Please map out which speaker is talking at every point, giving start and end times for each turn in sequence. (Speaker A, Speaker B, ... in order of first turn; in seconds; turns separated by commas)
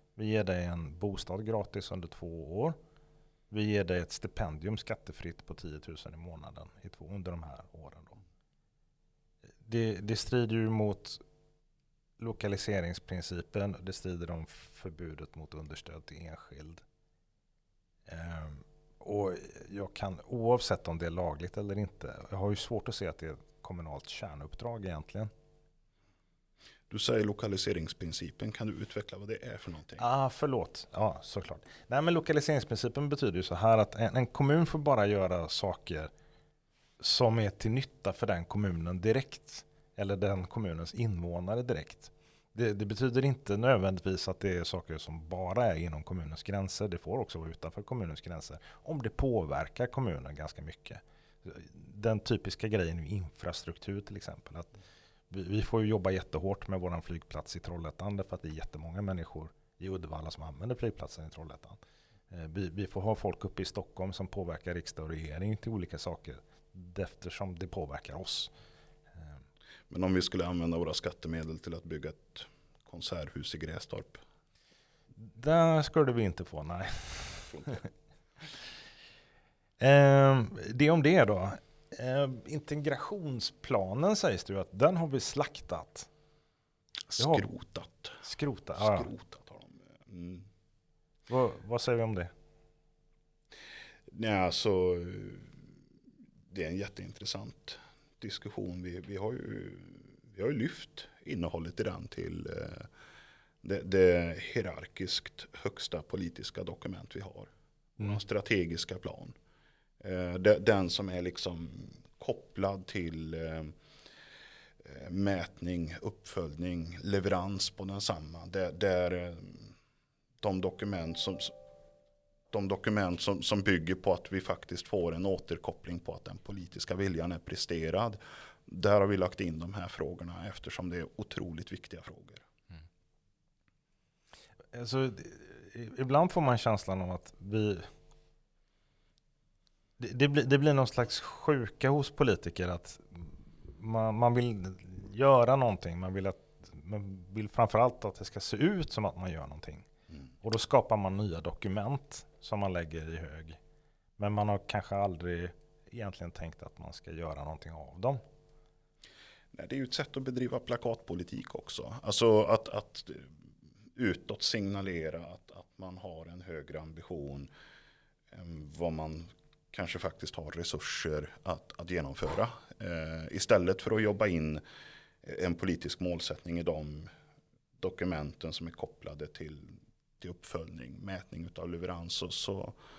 Speaker A: 0.2-2.8, Speaker A: 3.5-8.2, Speaker A: 9.6-11.2, Speaker A: 12.2-16.8, Speaker A: 18.1-25.3, Speaker B: 26.9-30.1, Speaker A: 30.0-36.1, Speaker A: 37.0-54.7, Speaker A: 55.3-61.8, Speaker A: 62.3-68.5, Speaker B: 69.9-74.2, Speaker A: 75.2-77.8, Speaker B: 77.5-77.8, Speaker A: 79.8-86.1, Speaker B: 87.1-88.2, Speaker A: 87.2-87.5, Speaker A: 88.2-89.1, Speaker B: 88.8-90.5, Speaker A: 91.3-92.3, Speaker B: 94.1-95.8, Speaker B: 96.5-102.9, Speaker B: 103.6-109.3, Speaker B: 110.0-113.8, Speaker B: 114.8-119.7, Speaker B: 120.4-121.5, Speaker B: 122.5-132.4, Speaker A: 134.7-137.9, Speaker A: 140.0-149.9, Speaker A: 150.4-153.6, Speaker A: 154.2-158.2, Speaker B: 159.5-163.4, Speaker B: 163.9-167.5, Speaker B: 168.3-174.6, Speaker B: 175.2-177.1, Speaker B: 177.8-182.8